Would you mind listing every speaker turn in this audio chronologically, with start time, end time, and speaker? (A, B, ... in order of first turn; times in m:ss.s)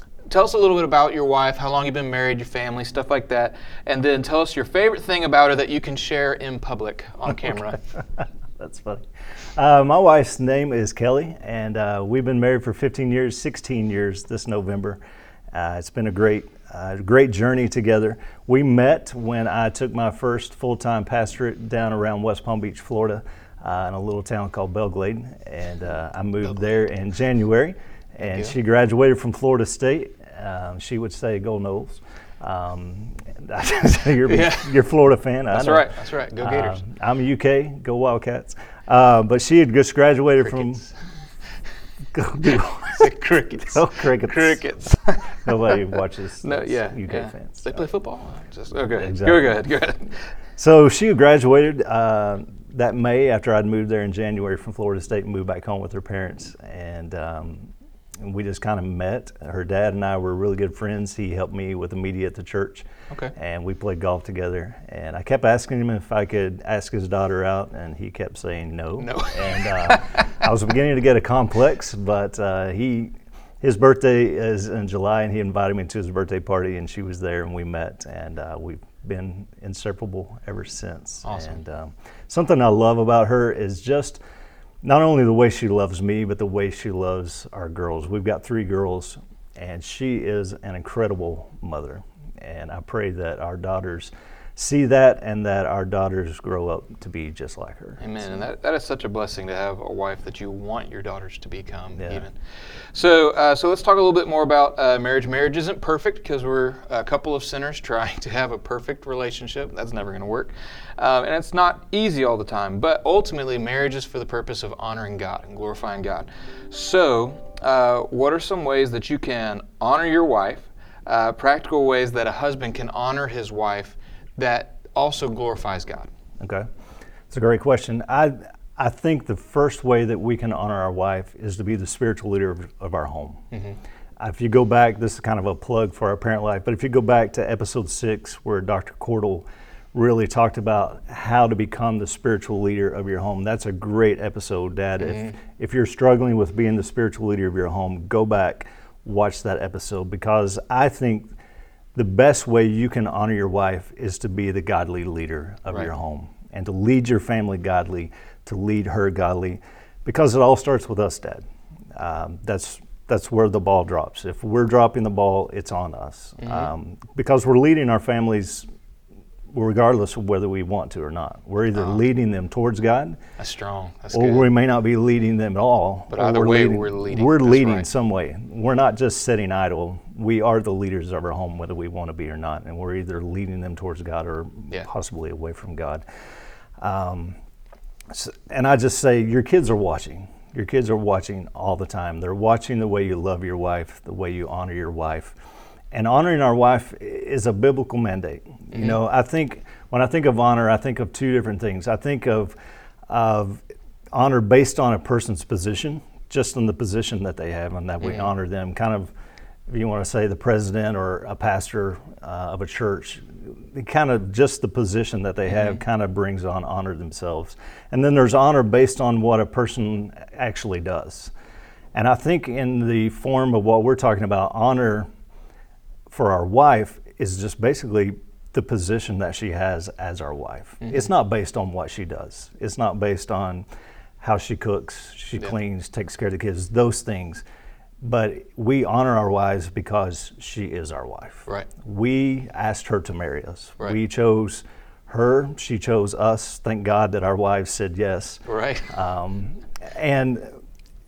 0:00.3-0:07.8 A
0:08.6-0:09.0 B
0:09.5-0:15.0 B
0:15.5-0:40.9 B
0:28.2-0:28.5 A
0:34.2-0:34.7 A
0:35.5-0:36.8 A
0:40.5-0:40.9 A
0:42.1-0:43.0 B
0:42.9-0:45.8 A
0:43.7-0:44.6 B
0:45.4-0:47.8 B
0:46.4-0:50.2 A
0:48.9-0:49.6 B
0:50.6-1:24.2 B
1:09.0-1:10.4 A
1:21.2-1:21.6 A
1:24.8-1:38.2 B
1:38.0-1:42.3 A
1:42.0-1:42.2 B
1:42.9-2:06.1 A
2:06.4-2:06.7 B
2:07.3-2:13.4 B
2:13.5-2:13.8 A
2:14.2-2:31.3 B
2:25.0-2:25.4 A
2:31.9-2:41.4 B
2:42.0-2:48.7 B
2:46.4-2:46.7 A
2:49.5-2:53.2 B
2:51.7-2:52.0 A
2:53.4-2:54.5 A
2:54.1-3:06.0 B
2:56.1-2:57.9 A
3:06.8-3:07.4 B
3:08.1-3:15.4 B
3:15.9-3:22.6 B
3:18.7-3:19.0 A
3:23.1-3:29.1 B
3:28.0-3:28.3 A
3:29.7-3:41.3 B
3:35.5-3:35.8 A
3:41.9-3:45.1 B
3:46.1-3:53.6 B
3:50.8-3:51.1 A
3:54.2-3:57.4 B
3:58.0-4:10.5 B
4:08.4-4:08.9 A